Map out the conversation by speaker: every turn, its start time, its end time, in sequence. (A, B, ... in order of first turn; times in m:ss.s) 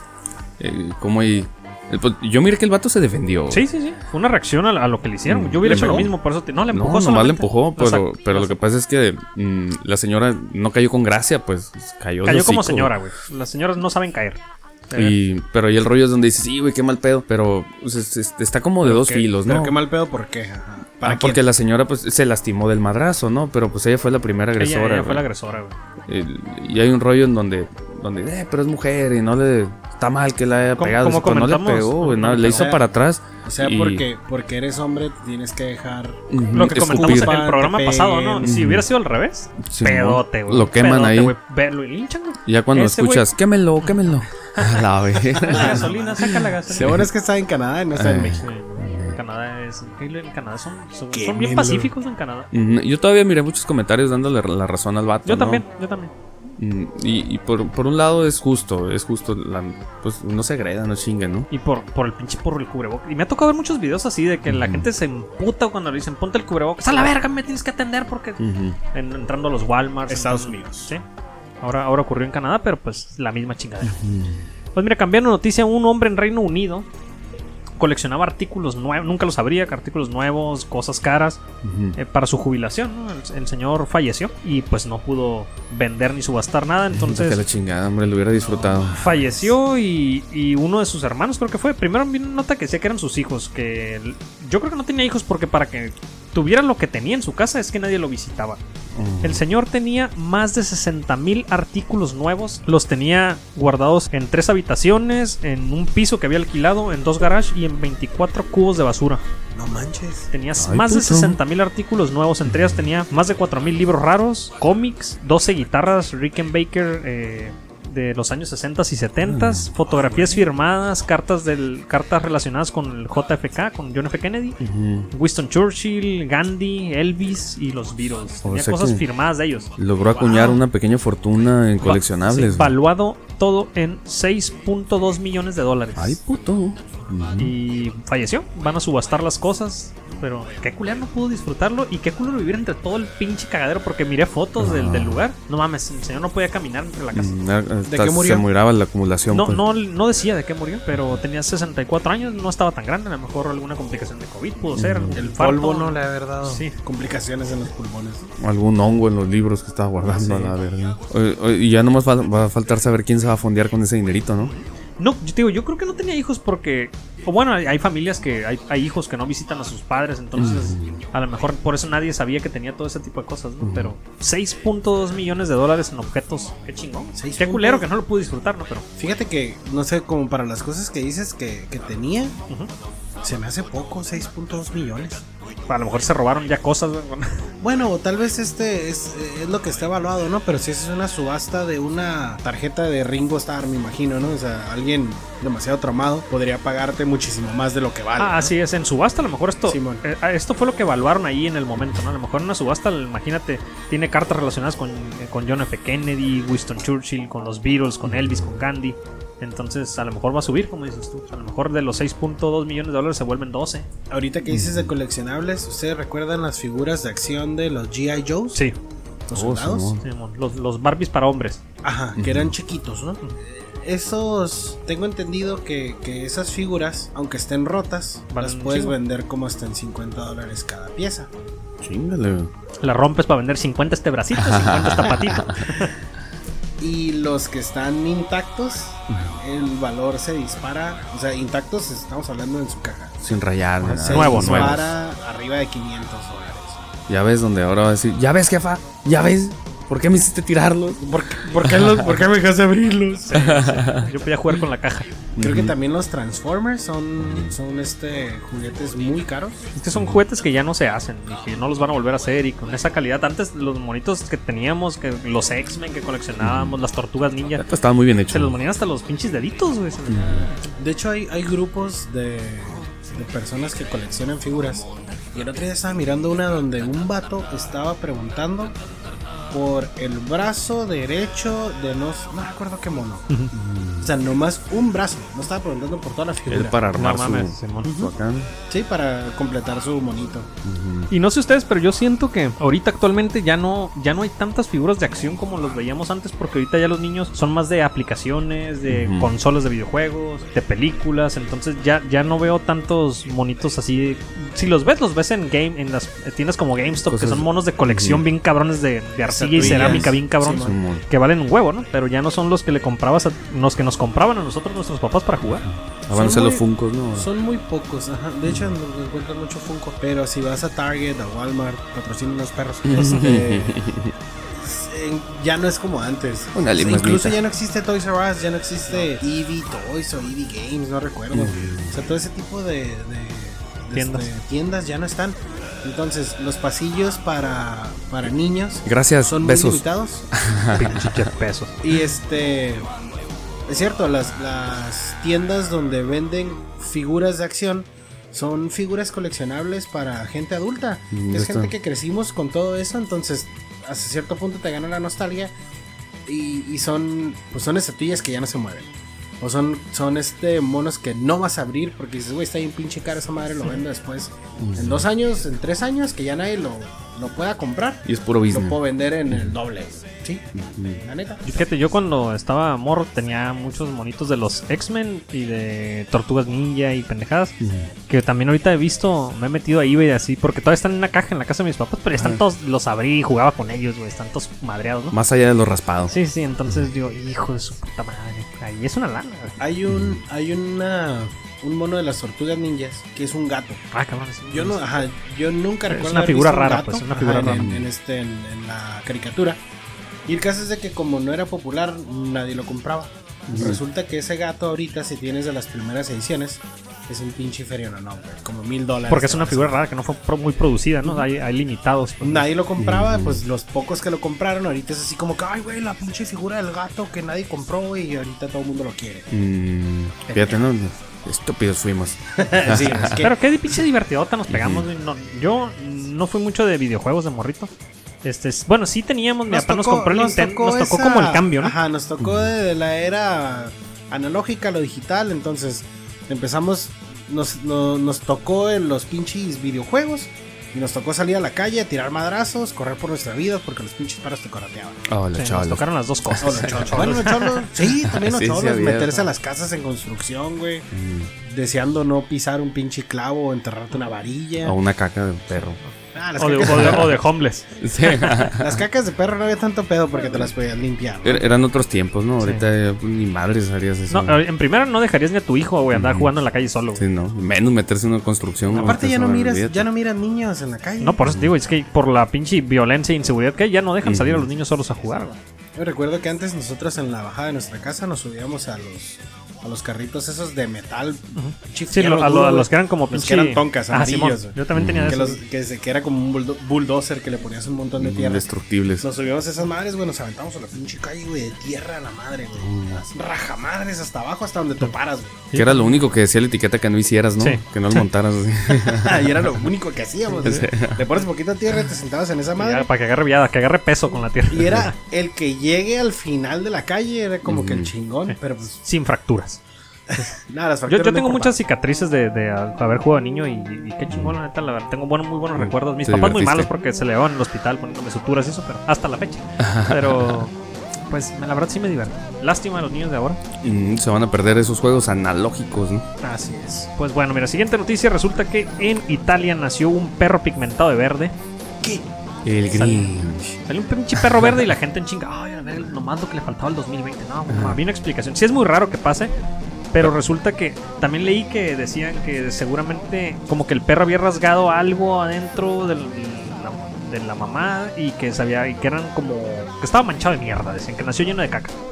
0:00.6-0:03.6 A
0:03.5-0:08.5 B
0:05.3-0:06.1 A
0:06.7-0:13.0 A
0:12.2-0:15.2 B
0:14.9-0:19.8 A
0:18.8-0:19.3 B
0:19.4-0:21.4 C
0:21.0-0:25.3 A
0:24.6-0:25.8 B
0:26.1-0:34.0 A
0:30.8-0:32.8 B
0:32.5-0:32.8 C
0:33.4-0:38.5 C
0:36.3-0:37.3 A
0:36.5-0:43.2 B
0:38.4-0:38.9 A
0:39.6-0:41.4 A
0:42.5-0:47.1 A
0:44.5-0:44.8 B
0:45.3-0:47.0 B
0:45.5-0:48.5 C
0:48.0-0:49.2 A
0:48.4-0:52.5 B
0:51.1-0:51.9 C
0:52.5-0:55.6 A
0:55.2-0:56.1 B
0:56.6-1:01.5 A
1:01.5-1:08.4 B
1:04.5-1:04.9 A
1:08.4-1:08.8 A
1:08.9-1:11.0 B
1:10.1-1:10.9 C
1:11.6-1:14.0 B
1:13.8-1:14.4 A
1:14.8-1:16.9 B
1:17.8-1:21.4 B
1:21.6-1:22.0 A
1:22.0-1:27.4 B
1:26.9-1:29.0 A
1:28.4-1:29.5 C
1:28.9-1:38.6 B
1:38.9-1:39.4 A
1:39.2-1:49.2 B
1:49.6-1:50.3 C
1:50.3-2:04.6 B
1:50.6-1:51.4 A
1:52.5-1:52.8 A
1:59.2-1:59.7 A
1:59.9-2:00.4 C
2:04.6-2:05.1 A
2:05.1-2:09.7 B
2:08.4-2:09.0 A
2:09.8-2:12.8 A
2:10.1-2:10.6 C
2:11.8-2:16.2 B
2:16.0-2:17.5 A
2:17.4-2:27.4 B
2:24.6-2:25.2 A
2:27.1-2:29.6 A
2:27.9-2:28.4 C
2:29.3-2:36.8 B
2:34.8-2:35.2 A
2:35.1-2:38.2 C
2:38.4-2:44.5 A
2:40.1-2:40.5 B
2:44.4-2:58.9 B
2:50.4-2:51.0 A
2:53.6-2:53.9 A
2:57.2-2:57.9 C
2:59.0-3:02.4 C
3:03.2-3:05.2 C
3:05.7-3:07.4 B
3:07.6-3:18.5 C
3:18.2-3:33.9 B
3:19.7-3:20.0 C
3:28.1-3:28.6 A
3:34.1-3:38.6 C
3:34.5-3:34.9 A
3:39.3-3:40.0 C
3:39.3-3:40.0 A
3:40.0-3:41.6 B
3:41.8-3:51.3 C
3:42.2-3:42.5 A
3:48.3-3:49.0 B
3:51.8-3:52.5 A
3:52.8-3:55.9 B
3:54.3-3:55.6 A
3:56.8-4:03.2 C
3:59.1-3:59.4 A
4:03.2-4:05.0 A
4:03.8-4:06.9 C
4:04.1-4:04.8 B
4:07.1-4:12.1 A
4:11.0-4:13.5 C
4:13.3-4:15.1 B
4:13.3-4:14.1 A
4:15.4-4:15.7 A
4:15.4-4:19.6 C
4:17.2-4:17.6 A
4:19.8-4:27.6 B
4:19.9-4:20.2 A
4:26.4-4:26.8 A
4:27.6-4:28.6 A
4:28.3-4:30.6 B
4:30.1-4:30.5 A
4:30.7-4:38.8 C
4:39.5-4:43.3 C
4:43.5-4:44.1 A
4:44.0-4:46.8 C
4:46.5-4:48.5 A
4:46.9-4:48.0 B
4:47.8-4:48.1 C
4:48.7-4:50.5 C
4:50.6-4:51.1 A
4:51.1-5:15.7 B
4:58.9-4:59.3 A
5:07.1-5:08.2 A
5:09.3-5:10.8 C
5:09.6-5:10.1 A
5:10.6-5:11.0 A
5:16.1-5:17.3 A
5:16.1-5:16.6 C
5:17.2-5:23.9 C
5:18.5-5:18.7 A
5:22.8-5:24.1 A
5:24.6-5:40.3 C
5:26.5-5:27.4 A
5:31.3-5:32.0 A
5:33.9-5:34.3 B
5:38.9-5:41.3 A
5:40.7-5:41.8 B
5:41.8-5:42.9 C
5:43.7-5:55.5 C
5:51.1-5:51.7 A
5:56.3-5:58.9 C
5:59.4-6:10.5 C
6:04.6-6:05.1 A
6:08.0-6:08.8 A
6:09.3-6:09.6 A
6:10.6-6:11.0 A
6:11.0-6:11.4 C
6:11.4-6:17.6 B
6:17.6-6:17.9 A
6:18.1-6:25.2 B
6:25.1-6:26.1 A
6:26.1-6:29.6 B
6:29.6-6:33.8 C
6:29.9-6:30.2 A
6:33.9-6:34.8 B
6:34.5-6:39.6 C
6:35.9-6:37.6 B
6:37.4-6:37.9 A
6:40.3-6:49.8 C
6:43.5-6:43.8 A
6:49.1-6:52.5 B
6:52.2-6:59.3 C
6:52.8-6:53.4 A
6:59.3-7:03.2 A
7:00.3-7:00.6 C
7:02.4-7:03.4 C
7:03.1-7:07.7 B
7:04.5-7:04.9 A
7:08.2-7:11.8 B
7:09.5-7:25.0 C
7:12.2-7:12.5 A
7:25.1-7:27.1 A
7:25.4-7:27.7 B
7:26.4-7:30.9 C
7:27.8-7:29.2 A
7:30.9-7:31.3 A
7:31.5-7:34.8 C
7:34.6-7:35.8 A
7:35.6-7:38.4 B
7:36.2-7:37.2 C
7:36.7-7:37.1 A
7:37.8-7:38.8 A
7:38.6-7:41.5 C
7:41.2-7:44.4 A
7:44.1-7:47.0 B
7:45.9-7:46.3 A
7:47.0-7:49.9 A
7:48.8-7:51.3 C
7:51.0-7:55.4 B
7:51.2-7:51.5 A
7:54.0-7:54.5 A
7:55.8-8:08.5 C
8:01.4-8:05.4 B
8:04.8-8:05.2 A
8:08.0-8:09.1 A
8:09.0-8:15.5 C
8:12.6-8:13.0 A
8:15.5-8:15.8 B
8:15.5-8:19.6 A
8:17.4-8:18.0 B
8:18.7-8:22.9 C
8:20.4-8:21.0 A
8:22.6-8:24.9 B
8:24.5-8:28.8 C
8:27.4-8:27.9 A
8:28.3-8:29.6 B
8:30.1-8:31.6 C
8:30.9-8:40.6 B
8:34.1-8:34.4 A
8:35.6-8:36.7 A
8:39.6-8:40.4 A
8:41.1-8:43.4 B
8:43.6-8:46.1 A
8:46.2-8:51.3 B
8:52.4-8:53.6 A
8:52.7-8:53.1 B
8:53.6-8:59.3 B
8:54.2-8:54.7 A
8:57.5-8:57.8 A
8:59.9-9:11.8 B